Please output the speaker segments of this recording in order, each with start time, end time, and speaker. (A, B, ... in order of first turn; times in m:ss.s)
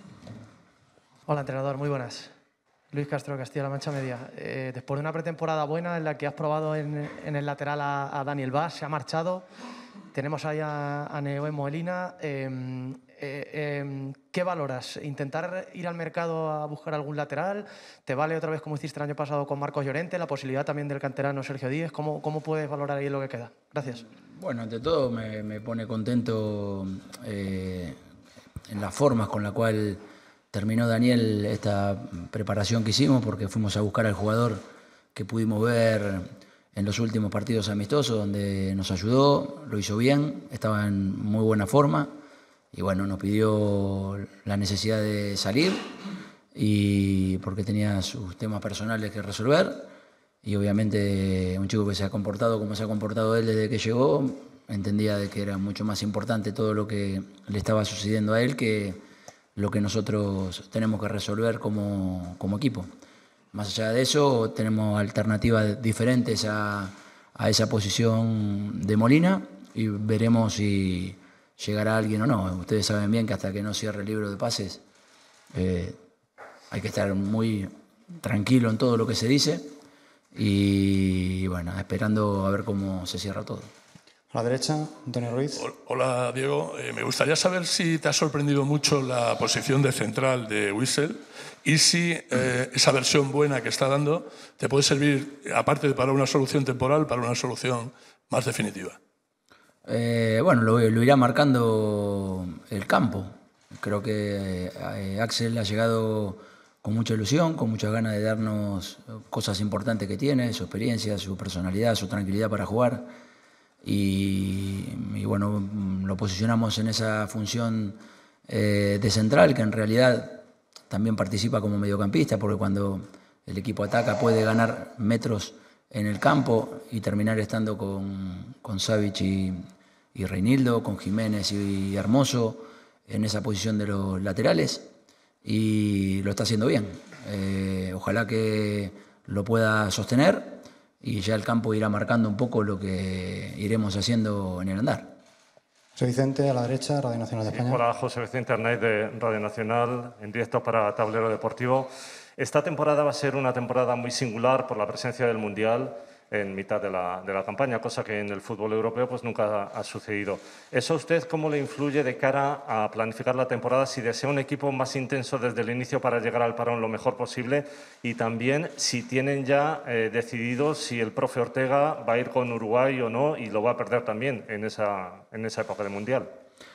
0:01.3-0:02.3 A
0:02.9-0:09.4 A
0:10.1-0:24.0 A
0:24.3-0:28.0 B
0:28.7-0:30.0 B
0:30.5-0:34.6 B
0:35.1-0:42.1 B
0:42.7-0:45.9 B
0:46.5-0:49.9 B
0:50.4-0:59.0 B
0:59.6-1:02.9 B
1:03.5-1:14.8 B
1:15.5-1:16.0 B
1:16.7-1:17.7 B
1:18.2-1:19.7 B
1:20.3-1:23.7 B
1:24.3-1:25.7 C
1:25.5-1:39.0 D
1:39.9-1:53.1 B
1:53.8-2:09.6 B
2:10.2-2:14.9 B
2:15.4-2:25.1 B
2:26.0-2:27.8 C
2:27.5-2:56.3 E